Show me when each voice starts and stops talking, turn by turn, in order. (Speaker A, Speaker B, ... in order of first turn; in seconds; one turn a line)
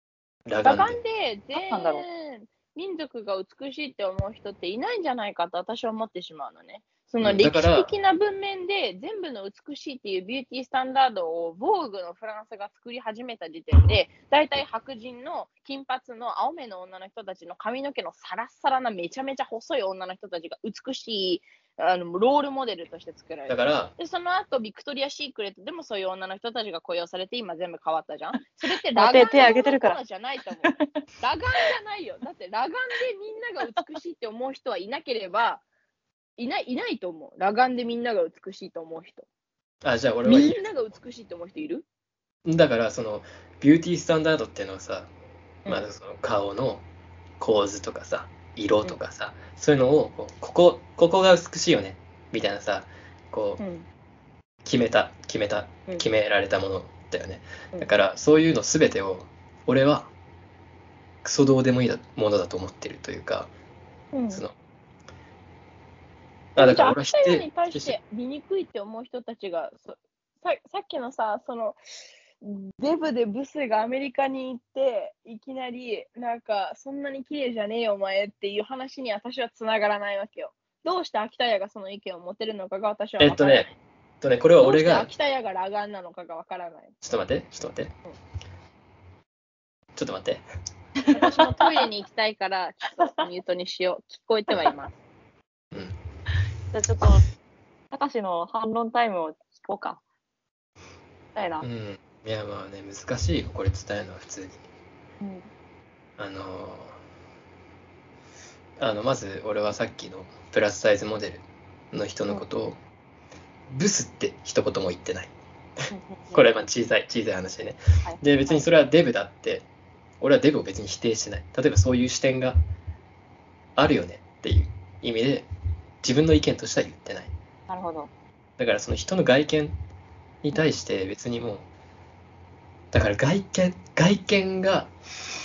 Speaker A: 0.5-1.0
Speaker B: 0.6-35.6
Speaker C: 1.5-2.0
Speaker A: 7.2-7.9
Speaker A: 23.5-23.9
Speaker C: 29.0-30.0
Speaker B: 36.4-39.2
Speaker A: 39.8-40.6
Speaker B: 40.2-41.9
Speaker A: 42.5-45.1
Speaker A: 45.7-46.9
Speaker A: 47.4-53.6
Speaker B: 53.6-53.9
Speaker A: 54.6-60.1
Speaker A: 61.2-63.5
Speaker B: 64.1-64.4
Speaker A: 66.6-68.0
Speaker B: 66.6-71.8
Speaker B: 72.4-83.7
Speaker A: 83.2-83.7
Speaker A: 84.2-85.1
Speaker B: 84.6-86.9
Speaker A: 87.0-88.0
Speaker A: 90.0-90.4
Speaker C: 91.0-91.5
Speaker B: 91.1-95.0
Speaker C: 96.7-97.2
Speaker C: 97.9-100.0
Speaker C: 101.3-101.7
Speaker A: 101.6-104.6
Speaker C: 105.2-105.5
Speaker A: 106.2-107.0
Speaker A: 108.8-112.8
Speaker A: 113.7-115.3
Speaker C: 115.9-116.4
Speaker A: 116.3-119.7
Speaker C: 118.0-118.6
Speaker A: 120.2-122.6
Speaker A: 123.8-125.5
Speaker A: 126.0-127.3
Speaker C: 127.7-128.1
Speaker A: 128.6-129.8
Speaker A: 130.4-131.7
Speaker A: 132.9-134.9